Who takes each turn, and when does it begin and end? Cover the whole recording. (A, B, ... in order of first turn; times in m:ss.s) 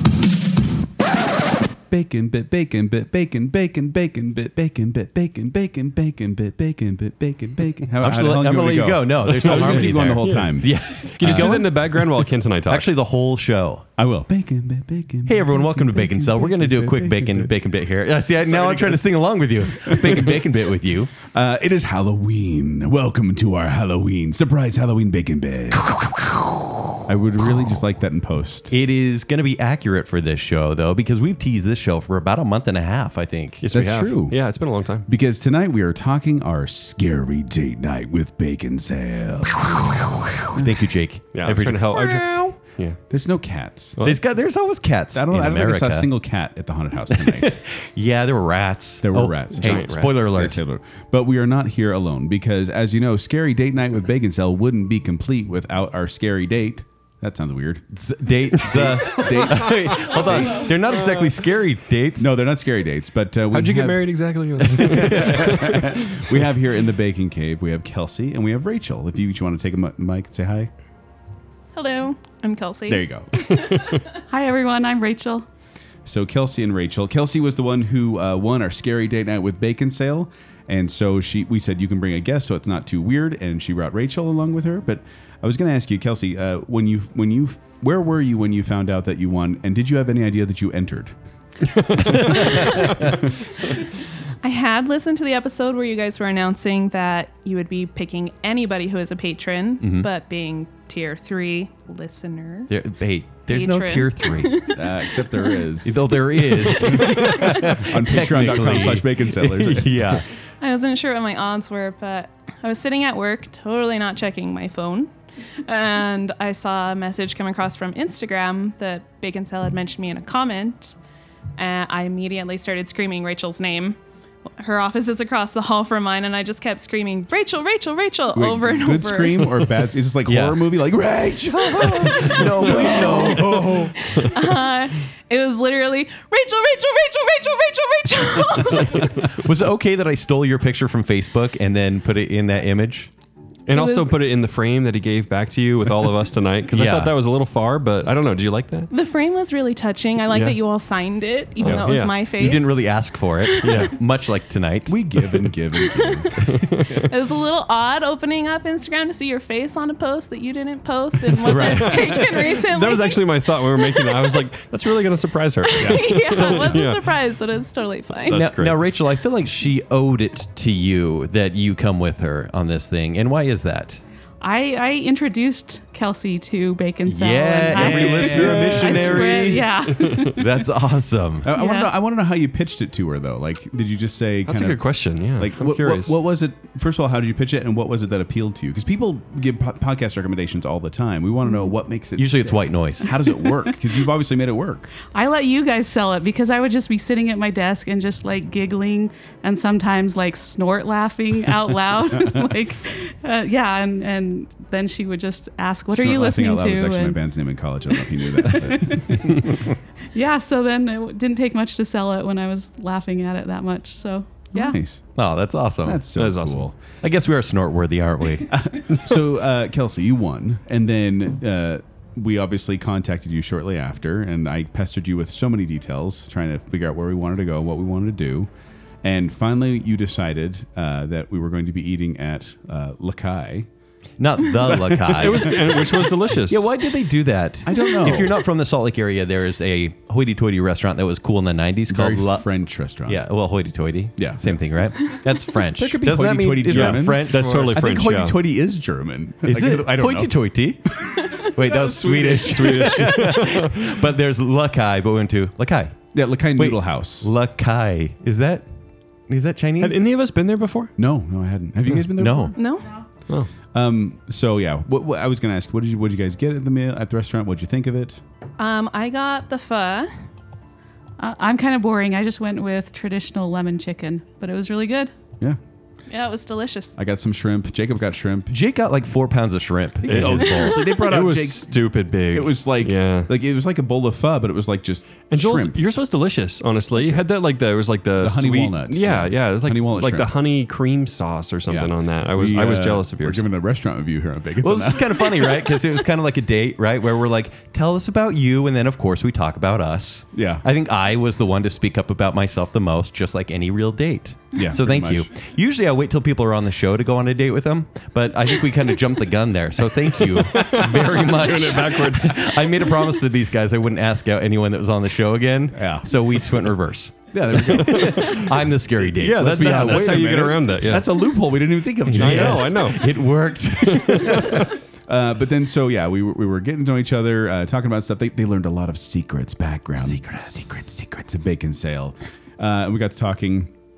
0:01.9-0:11.6 A
0:08.0-0:12.1 B
0:09.3-0:12.9 C
0:12.6-0:13.8 B
0:14.0-0:17.5 A
0:15.2-0:21.1 B
0:18.4-0:19.1 A
0:19.7-0:20.4 A
0:21.2-0:25.9 A
0:25.8-0:26.9 B
0:27.0-0:28.7 A
0:28.7-0:33.6 B
0:33.6-0:35.1 C
0:33.7-0:34.4 A
0:35.1-0:40.8 A
0:39.6-0:42.6 B
0:41.3-0:43.0 C
0:43.1-0:44.0 A
0:44.0-0:46.1 B
0:45.1-0:47.5 A
0:47.1-0:50.6 B
0:49.0-0:57.9 A
0:49.6-0:50.1 C
0:57.9-1:02.3 B
0:58.5-1:00.8 A
0:59.1-1:00.9 C
1:02.2-1:10.7 A
1:03.5-1:06.0 C
1:04.6-1:06.0 B
1:11.8-1:14.0 D
1:12.9-1:13.6 A
1:14.3-1:15.4 E
1:16.0-1:31.1 A
1:31.9-1:32.5 C
1:32.0-1:33.2 B
1:32.4-1:32.8 A
1:34.4-1:42.7 D
1:39.8-1:40.1 B
1:42.7-1:44.7 B
1:43.5-1:45.6 D
1:44.7-1:46.2 A
1:45.8-1:50.2 B
1:46.5-1:47.2 D
1:46.8-1:50.2 A
1:50.6-1:55.1 D
1:55.6-2:00.9 D
2:01.6-2:04.0 D
2:04.6-2:09.6 D
2:08.3-2:14.0 A
2:10.2-2:10.8 B
2:11.7-2:13.9 B
2:12.2-2:19.3 D
2:18.6-2:23.1 B
2:23.7-2:28.9 C
2:23.7-2:24.2 D
2:26.7-2:27.1 B
2:28.9-2:33.9 D
2:30.3-2:30.6 C
2:31.6-2:32.2 C
2:32.4-2:35.0 B
2:33.6-2:33.9 C
2:34.9-2:36.6 A
2:35.4-2:44.5 D
2:36.4-2:37.0 C
2:41.4-2:47.0 C
2:41.4-2:42.3 B
2:45.6-2:48.4 D
2:46.3-2:46.8 B
2:48.3-2:48.8 C
2:48.3-2:54.0 B
2:54.4-3:00.6 E
2:57.0-3:01.5 B
2:57.7-2:58.9 A
2:58.0-2:59.2 C
3:01.4-3:04.8 A
3:01.5-3:01.9 E
3:04.5-3:06.1 C
3:05.3-3:14.9 A
3:12.2-3:13.2 B
3:15.0-3:27.2 E
3:22.1-3:22.5 A
3:25.9-3:29.3 A
3:27.9-3:34.8 E
3:34.5-3:35.0 A
3:35.2-3:36.0 B
3:35.8-3:36.8 A
3:36.1-3:36.7 C
3:37.0-3:38.6 B
3:38.5-3:48.5 A
3:49.0-3:53.7 A
3:54.2-4:02.4 B
3:54.6-3:55.8 A
3:55.1-3:56.7 C
3:57.6-3:58.4 A
4:01.9-4:03.2 A
4:03.0-4:07.8 B
4:04.2-4:04.6 A
4:05.8-4:10.3 A
4:06.7-4:08.4 C
4:09.4-4:16.0 B
4:10.9-4:11.2 A
4:11.7-4:13.8 C
4:12.7-4:13.2 A
4:16.1-4:17.3 A
4:16.6-4:18.6 B
4:19.3-4:20.0 B
4:19.8-4:20.9 C
4:21.0-4:22.5 A
4:22.2-4:22.5 B
4:22.6-4:22.9 D
4:23.7-4:28.2 A
4:28.6-4:30.1 D
4:31.2-4:35.1 E
4:36.1-4:36.9 D
4:37.0-4:38.5 A
4:38.5-4:40.8 B
4:40.0-4:45.8 A
4:40.0-4:43.3 C
4:45.3-4:53.4 C
4:46.9-4:47.3 A
4:48.2-4:50.3 A
4:51.7-4:55.3 A
4:54.6-5:20.4 B
5:00.3-5:00.6 A
5:04.5-5:05.3 A
5:10.2-5:12.7 C
5:15.7-5:16.1 A
5:17.3-5:18.5 A
5:17.7-5:18.5 C
5:19.1-5:21.1 C
5:19.2-5:23.0 A
5:22.0-5:24.7 B
5:22.1-5:23.1 C
5:23.8-5:24.7 C
5:24.2-5:33.7 A
5:30.0-5:30.6 C